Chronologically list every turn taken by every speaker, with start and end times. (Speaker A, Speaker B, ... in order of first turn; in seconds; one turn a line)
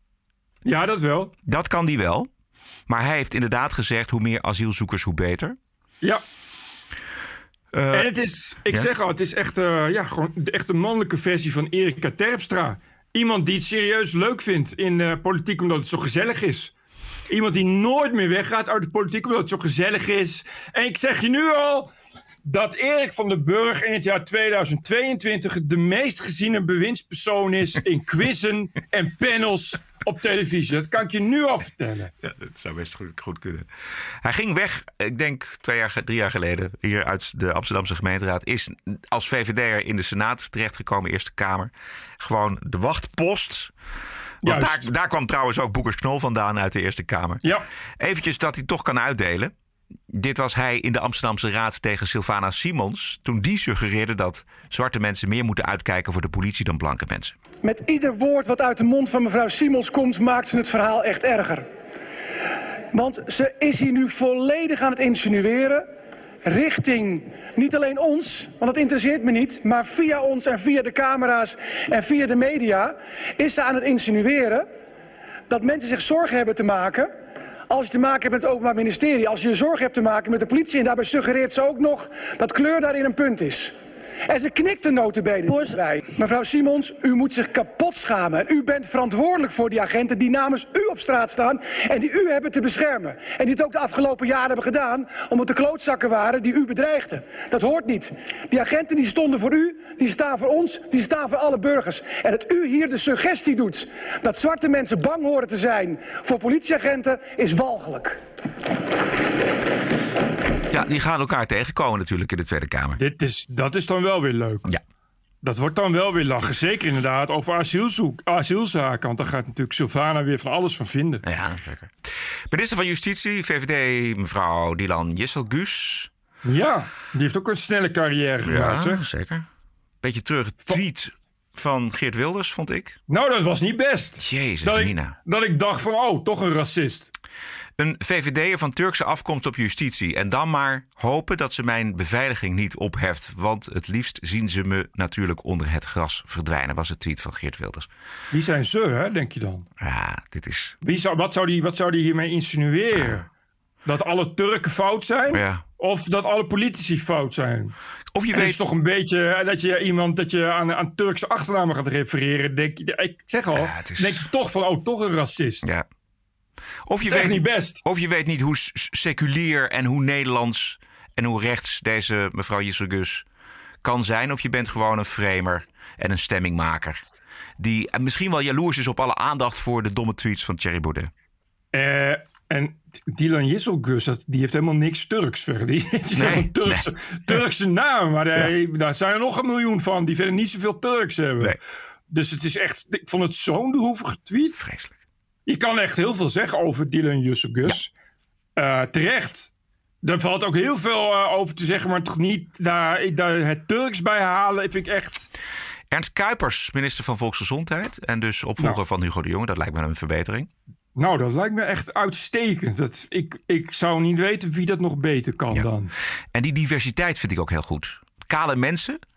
Speaker A: 0.7-1.3
Speaker B: 1.4-2.3
Speaker B: 2.9-5.6
Speaker B: 7.7-8.1
Speaker A: 7.9-16.7
Speaker A: 17.3-21.9
Speaker A: 22.4-32.1
Speaker B: 32.2-43.7
Speaker A: 44.4-44.9
Speaker B: 44.4-49.5
Speaker B: 50.1-57.4
Speaker C: 57.6-61.7
Speaker C: 62.9-65.9
Speaker C: 66.5-74.7
Speaker C: 75.5-77.1
Speaker C: 77.7-83.7
Speaker C: 84.3-108.2
Speaker B: 110.7-113.0
Speaker A: 113.0-114.7
Speaker A: 115.4-121.2
Speaker B: 121.2-126.1
Speaker A: 126.4-129.0
Speaker B: 128.4-129.5
Speaker B: 130.0-133.0
Speaker A: 133.1-137.1
Speaker B: 134.2-135.2
Speaker B: 137.8-147.9
Speaker A: 148.3-149.7
Speaker B: 149.8-150.8
Speaker A: 150.8-153.3
Speaker B: 152.9-153.2
Speaker A: 153.8-157.7
Speaker B: 155.3-155.6
Speaker B: 158.1-158.6
Speaker A: 158.3-165.7
Speaker B: 163.6-164.2
Speaker B: 166.9-173.2
Speaker A: 167.1-167.8
Speaker B: 173.8-177.0
Speaker B: 177.6-181.1
Speaker A: 181.7-191.6
Speaker B: 186.2-187.4
Speaker A: 192.1-194.6
Speaker B: 194.6-195.0
Speaker A: 195.5-197.9
Speaker A: 198.6-199.5
Speaker A: 200.0-205.3
Speaker B: 205.9-210.5
Speaker A: 211.0-215.9
Speaker B: 216.3-219.0